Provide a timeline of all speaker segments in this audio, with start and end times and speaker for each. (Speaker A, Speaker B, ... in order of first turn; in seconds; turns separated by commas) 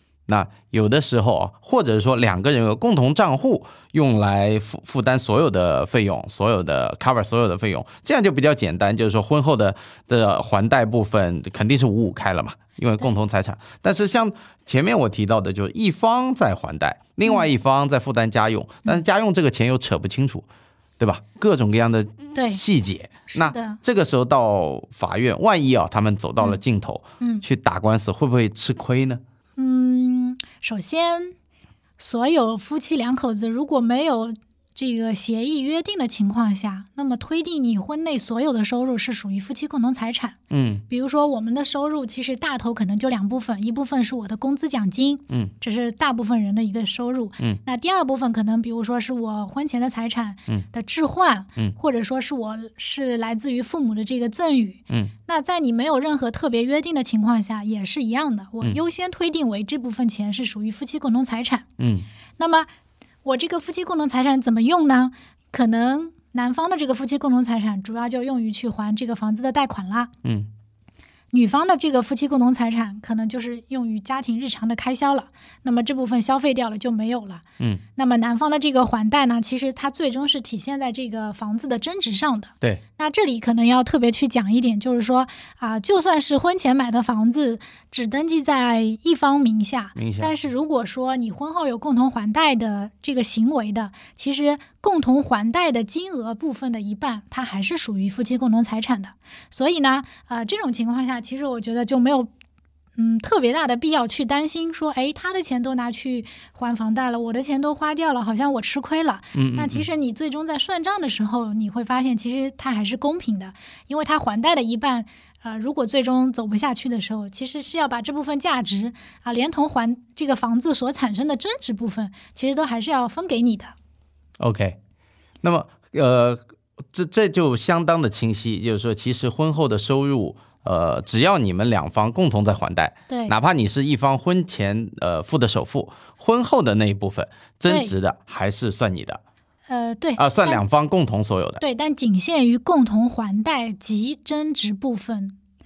Speaker A: 0.3-20.4, Speaker A: 21.0-29.2, Speaker B: 22.4-22.6, Speaker B: 23.3-23.8, Speaker B: 29.6-31.4, Speaker B: 32.0-40.4, Speaker A: 40.5-40.8, Speaker B: 40.9-61.7, Speaker A: 61.8-62.1, Speaker B: 62.4-62.7, Speaker B: 63.2-70.1, Speaker B: 71.3-77.4, Speaker B: 78.0-102.3, Speaker A: 90.0-90.3, Speaker B: 103.0-123.7, Speaker A: 109.3-109.8, Speaker A: 124.4-124.8, Speaker A: 125.4-139.2, Speaker B: 133.1-133.3, Speaker B: 137.7-137.9, Speaker B: 139.7-140.6, Speaker A: 140.2-141.6, Speaker B: 141.6-145.4